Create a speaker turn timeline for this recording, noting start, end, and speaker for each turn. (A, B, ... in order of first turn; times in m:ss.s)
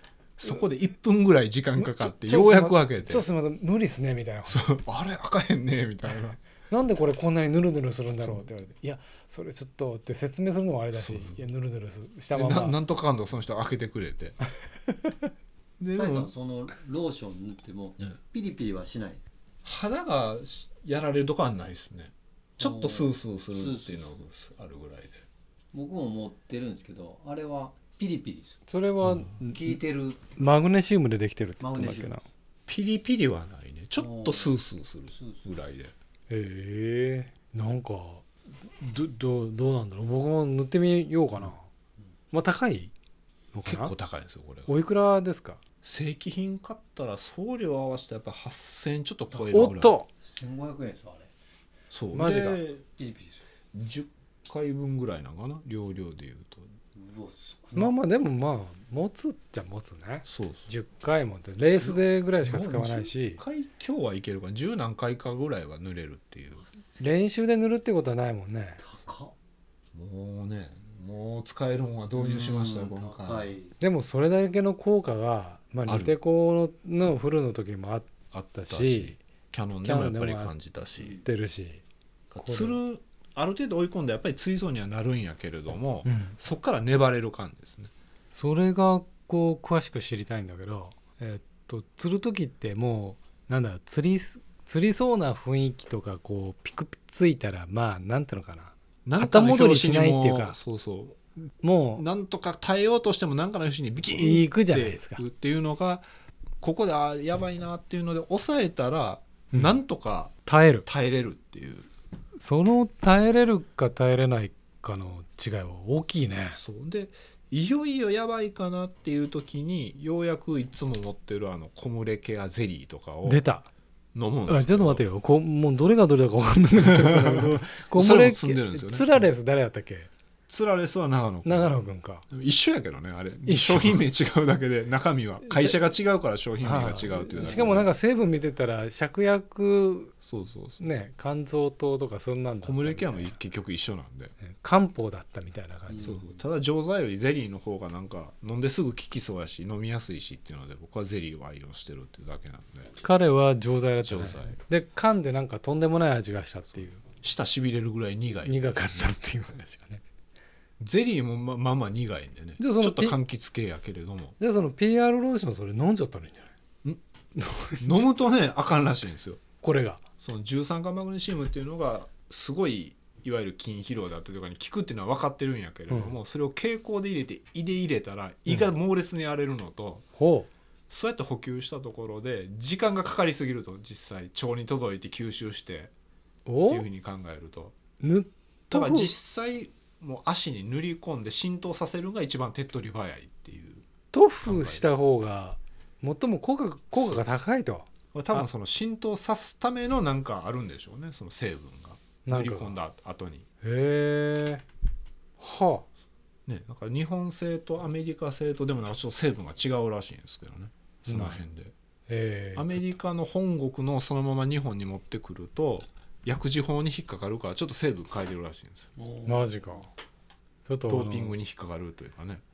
0:00.4-0:03.3 A
0:01.8-0:04.7 B
0:04.5-0:06.4 A
0:06.7-0:12.8 B
0:08.2-0:08.4 A
0:10.9-0:11.4 A
0:12.3-0:14.4 A
0:14.9-0:15.1 B
0:15.8-0:16.3 A
0:15.9-0:19.3 C
0:19.6-0:25.3 A
0:22.6-0:24.1 C
0:25.7-0:28.6 C
0:28.7-0:29.8 B
0:29.4-0:30.4 C
0:30.4-0:32.2 B
0:31.6-0:32.2 C
0:32.7-0:35.9 A
0:34.0-0:34.6 C
0:35.1-0:35.4 C
0:36.3-0:41.6 B
0:42.3-0:42.9 B
0:43.5-0:43.9 B
0:43.7-0:44.7 A
0:44.7-0:45.6 B
0:45.8-0:50.0 A
0:49.3-0:51.3 C
0:49.5-0:50.1 B
0:51.9-0:52.8 A
0:52.1-0:52.6 B
0:53.0-0:53.4 C
0:53.7-0:56.7 A
0:57.0-0:57.9 C
0:57.8-1:03.4 B
1:00.3-1:00.7 A
1:01.7-1:06.6 A
1:06.6-1:07.0 C
1:07.0-1:08.8 B
1:08.8-1:09.3 C
1:09.9-1:13.6 A
1:12.2-1:13.7 C
1:13.8-1:19.2 B
1:15.9-1:16.1 A
1:18.3-1:21.2 A
1:19.8-1:20.6 B
1:21.0-1:21.2 C
1:21.2-1:21.8 B
1:22.3-1:27.9 A
1:22.4-1:22.8 B
1:26.0-1:26.4 B
1:28.3-1:40.6 B
1:39.1-1:41.2 A
1:41.6-1:42.0 B
1:42.0-1:46.0 A
1:44.2-1:45.2 B
1:46.6-1:50.3 A
1:49.5-1:49.8 B
1:50.5-1:50.9 B
1:50.9-1:51.9 A
1:52.4-1:56.6 B
1:56.6-2:03.4 A
2:03.3-2:03.7 B
2:04.1-2:05.0 A
2:04.5-2:10.1 B
2:06.8-2:09.2 A
2:10.5-2:17.9 A
2:11.4-2:12.3 B
2:13.4-2:14.0 B
2:15.4-2:15.8 B
2:16.6-2:20.1 B
2:17.3-2:17.8 C
2:20.2-2:20.8 A
2:20.8-2:23.4 B
2:22.6-2:24.3 A
2:24.4-2:26.2 B
2:25.9-2:26.4 C
2:26.0-2:32.9 A
2:33.0-2:37.0 B
2:34.0-2:34.6 A
2:37.1-2:38.9 A
2:38.4-2:40.0 B
2:40.8-2:44.4 A
2:42.6-2:43.2 B
2:44.4-2:46.5 B
2:47.4-2:48.0 B
2:47.8-2:49.4 A
2:49.6-2:50.0 B
2:50.2-3:00.1 A
2:55.9-2:56.2 B
3:00.2-3:00.5 B
3:00.9-3:05.9 A
3:06.5-3:06.8 B
3:06.7-3:07.8 A
3:08.0-3:09.1 B
3:08.7-3:13.8 A
3:14.1-3:18.4 B
3:14.4-3:14.9 A
3:18.1-3:23.5 A
3:22.3-3:22.8 B
3:23.6-3:24.6 B
3:25.4-3:25.9 B
3:26.5-3:31.7 A
3:31.1-3:31.4 B
3:32.1-3:33.0 B
3:32.6-3:38.9 A
3:39.0-3:39.6 C
3:39.2-3:39.9 B
3:40.7-3:41.4 B
3:40.9-3:42.4 A